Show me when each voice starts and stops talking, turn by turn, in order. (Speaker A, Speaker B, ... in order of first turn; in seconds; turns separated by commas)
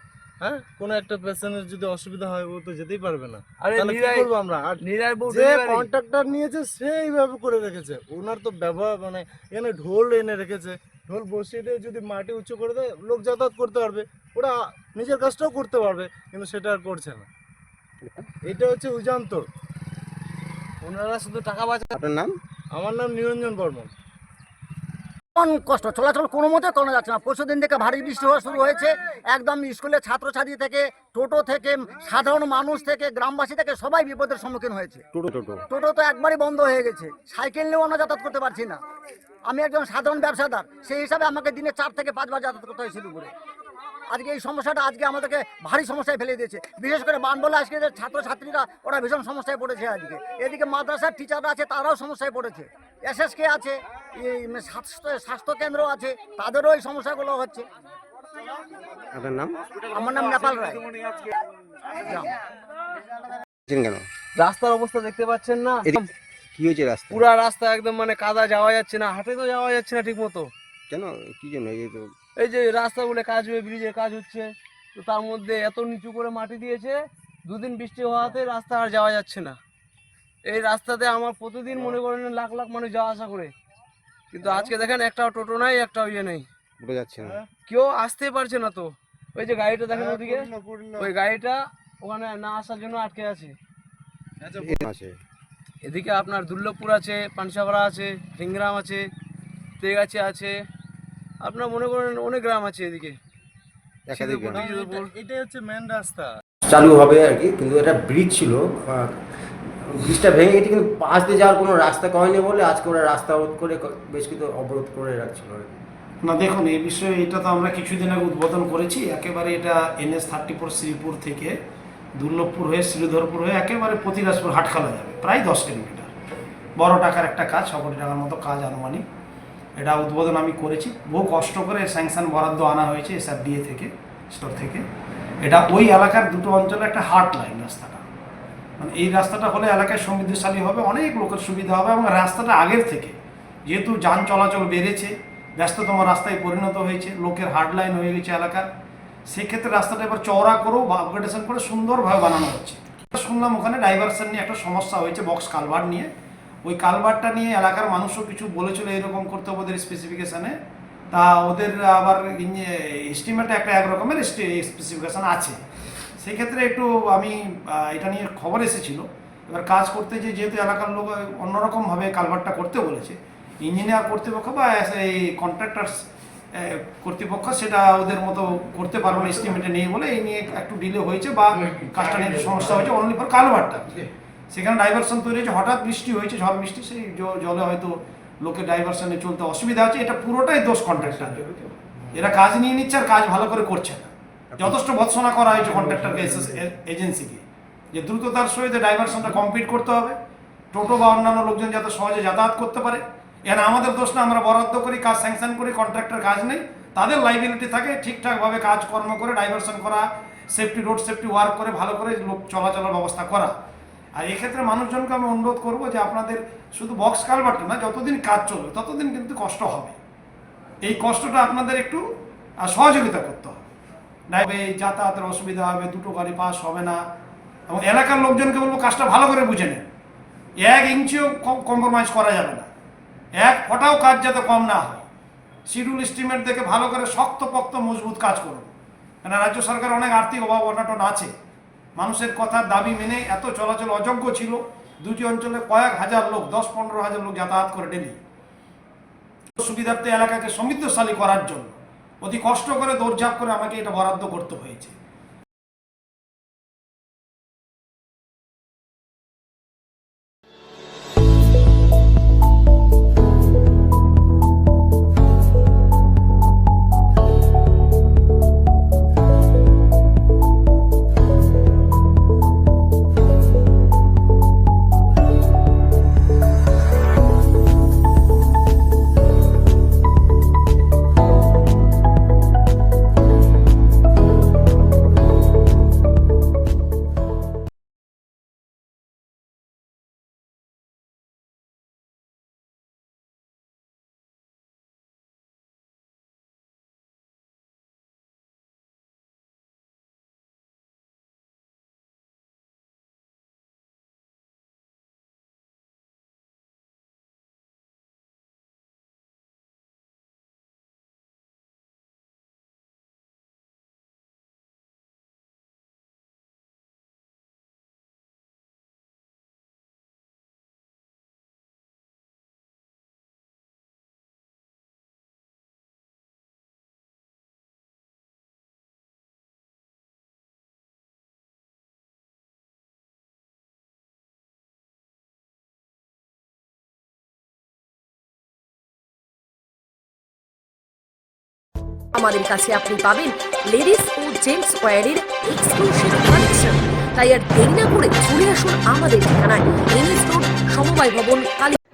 Speaker A: 0.4-17.3, Speaker B: 3.6-5.9, Speaker A: 18.5-19.5, Speaker B: 20.8-21.9, Speaker C: 21.9-22.4, Speaker A: 22.7-23.9, Speaker D: 25.4-35.0, Speaker C: 35.1-35.6, Speaker D: 35.7-38.8, Speaker D: 39.5-43.3, Speaker D: 44.1-57.7, Speaker C: 59.1-59.5, Speaker D: 59.9-60.8, Speaker C: 63.7-64.0, Speaker B: 64.4-65.9, Speaker C: 66.6-67.2, Speaker B: 67.1-70.5, Speaker C: 70.9-72.1, Speaker B: 72.4-79.6, Speaker B: 80.5-83.5, Speaker B: 84.3-86.5, Speaker A: 84.5-84.7, Speaker C: 86.8-87.4, Speaker B: 87.7-93.5, Speaker A: 89.9-91.1, Speaker C: 94.6-95.2, Speaker B: 95.8-99.0, Speaker B: 99.8-100.5, Speaker B: 101.4-103.2, Speaker C: 104.1-104.6, Speaker A: 104.1-106.3, Speaker B: 104.3-105.1, Speaker E: 106.7-108.8, Speaker E: 109.9-115.7, Speaker F: 116.2-121.6, Speaker F: 122.2-126.1, Speaker F: 126.8-129.1, Speaker F: 129.8-134.8, Speaker F: 135.4-138.0, Speaker F: 138.8-143.2, Speaker F: 143.7-148.7, Speaker F: 149.3-156.1, Speaker F: 156.7-160.6, Speaker F: 161.1-165.6, Speaker F: 166.2-184.0, Speaker F: 184.5-200.2, Speaker F: 200.7-213.5, Speaker F: 214.2-220.0, Speaker F: 220.8-222.1, Speaker F: 222.6-223.6, Speaker F: 224.3-227.0, Speaker F: 227.7-229.9, Speaker F: 230.6-232.7, Speaker F: 233.4-235.1, Speaker F: 235.7-238.7, Speaker F: 239.2-241.3, Speaker F: 242.0-248.2, Speaker F: 249.6-254.9, Speaker G: 342.1-351.8